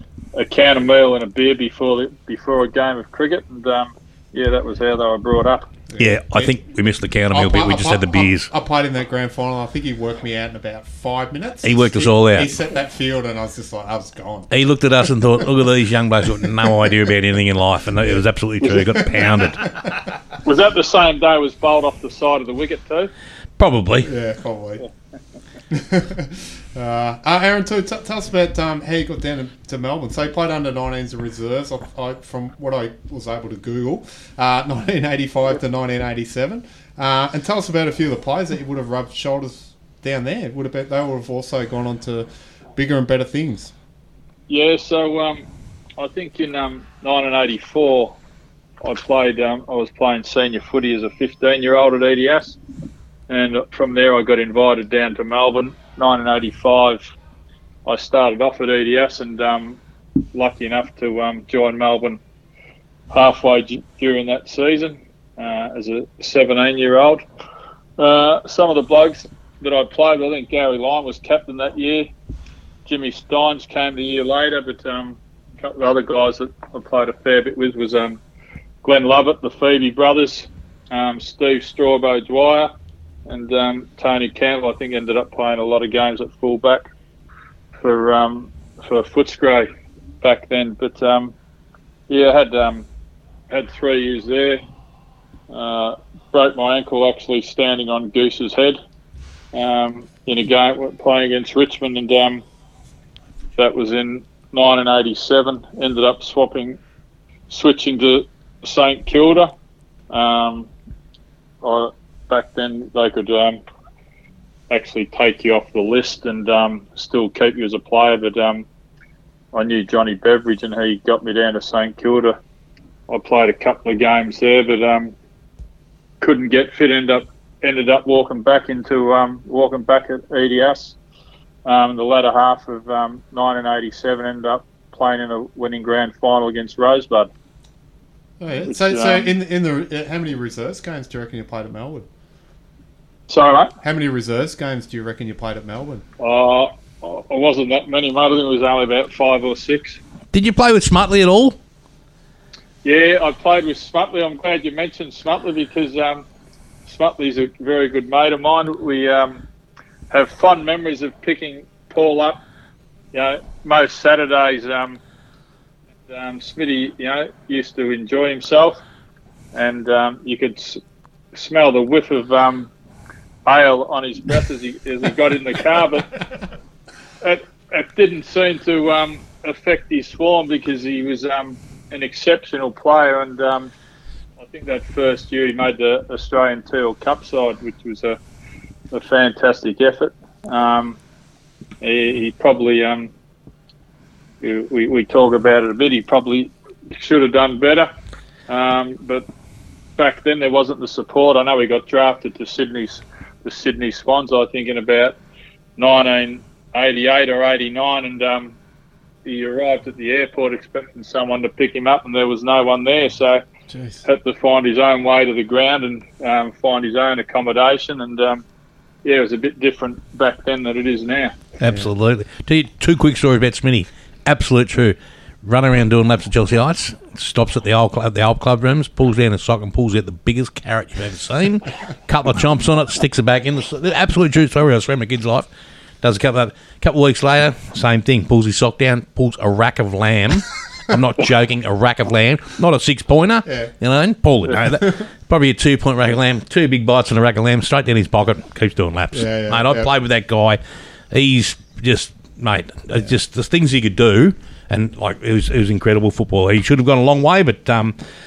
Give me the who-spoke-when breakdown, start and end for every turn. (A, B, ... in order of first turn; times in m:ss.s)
0:00.4-0:05.7 A
0:05.9-0:06.5 B
0:06.0-0:08.5 C
0:07.3-0:14.5 B
0:11.6-0:12.5 C
0:14.5-0:19.6 C
0:18.0-0:19.9 B
0:20.4-0:23.1 A
0:23.6-0:24.1 C
0:24.0-0:24.8 B
0:25.7-0:43.7 B
0:44.5-0:45.4 A
0:46.0-0:48.2 A
0:48.8-0:52.6 A
0:53.3-0:57.1 A
0:57.8-0:59.8 A
1:00.3-1:02.2 A
1:03.1-1:07.2 A
1:08.0-1:12.1 A
1:12.8-1:18.2 A
1:18.8-1:22.7 A
1:23.2-1:26.9 A
1:27.8-1:29.7 A
1:30.2-1:31.3 A
1:32.1-1:32.9 A
1:33.5-1:34.6 A
1:35.5-1:38.8 A
1:39.5-1:42.4 A
1:43.6-1:46.8 A
1:47.5-1:49.5 A
1:50.1-1:50.7 A
1:51.6-1:53.6 A
1:54.7-1:58.6 A
1:59.5-2:02.4 A
2:03.1-2:05.1 A
2:06.2-2:11.0 A
2:11.6-2:17.3 A
2:18.4-2:22.0 B
2:18.7-2:19.3 A
2:23.3-2:23.7 A
2:23.8-2:26.0 B
2:26.2-2:30.0 A
2:30.3-2:31.6 C
2:32.8-2:36.2 A
2:36.8-2:39.4 A
2:40.1-2:42.4 A
2:43.1-2:45.0 A
2:46.1-2:48.8 A
2:49.5-2:50.8 A
2:51.3-2:52.7 A
2:53.4-2:56.0 A
2:57.2-3:03.7 A
3:04.4-3:08.2 A
3:08.9-3:11.0 A
3:11.8-3:13.1 A
3:14.4-3:17.9 A
3:18.5-3:19.2 A
3:20.0-3:25.2 A
3:25.8-3:28.6 A
3:29.2-3:33.4 A
3:33.7-3:34.0 B
3:34.0-3:38.4 A
3:39.0-3:41.3 A
3:41.6-3:55.5 C
3:56.0-4:10.6 C
4:04.6-4:05.0 B
4:09.1-4:09.9 B
4:11.1-4:17.9 C